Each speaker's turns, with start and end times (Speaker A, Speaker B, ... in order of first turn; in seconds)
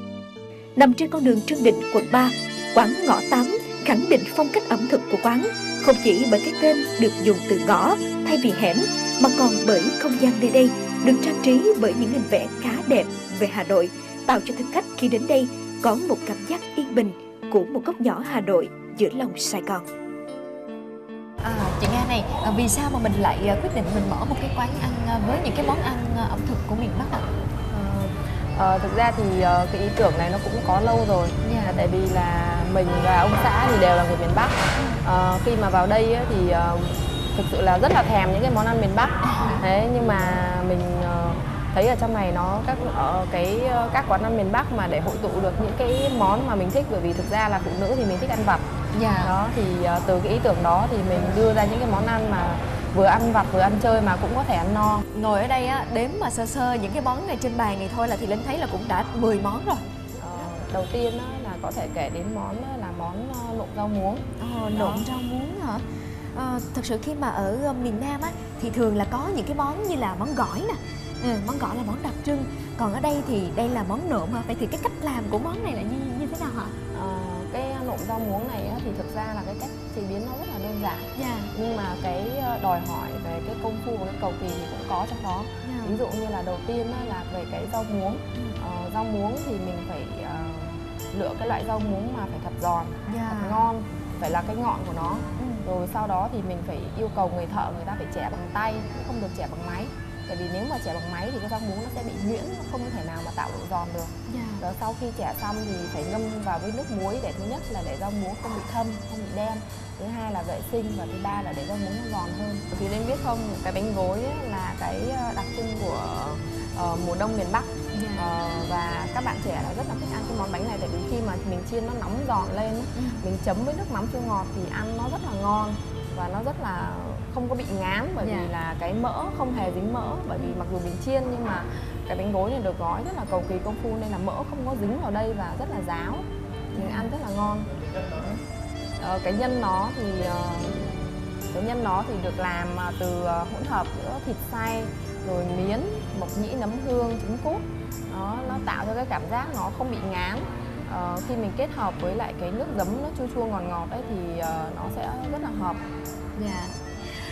Speaker A: 0.8-19.9
Speaker B: 21.4-27.3, 31.4-31.8, 34.8-35.0, 48.9-49.3, 55.1-59.8, 64.4-65.8, 66.3-76.7, 81.1-81.5, 85.6-86.0, 93.1-93.7, 95.4-95.7, 104.3-104.6, 117.9-118.4, 123.0-123.2, 128.2-128.5, 136.7-137.1, 156.3-156.8
Speaker C: 27.7-48.7, 49.2-55.0, 60.2-65.1, 76.9-138.3, 139.0-140.9, 141.5-155.8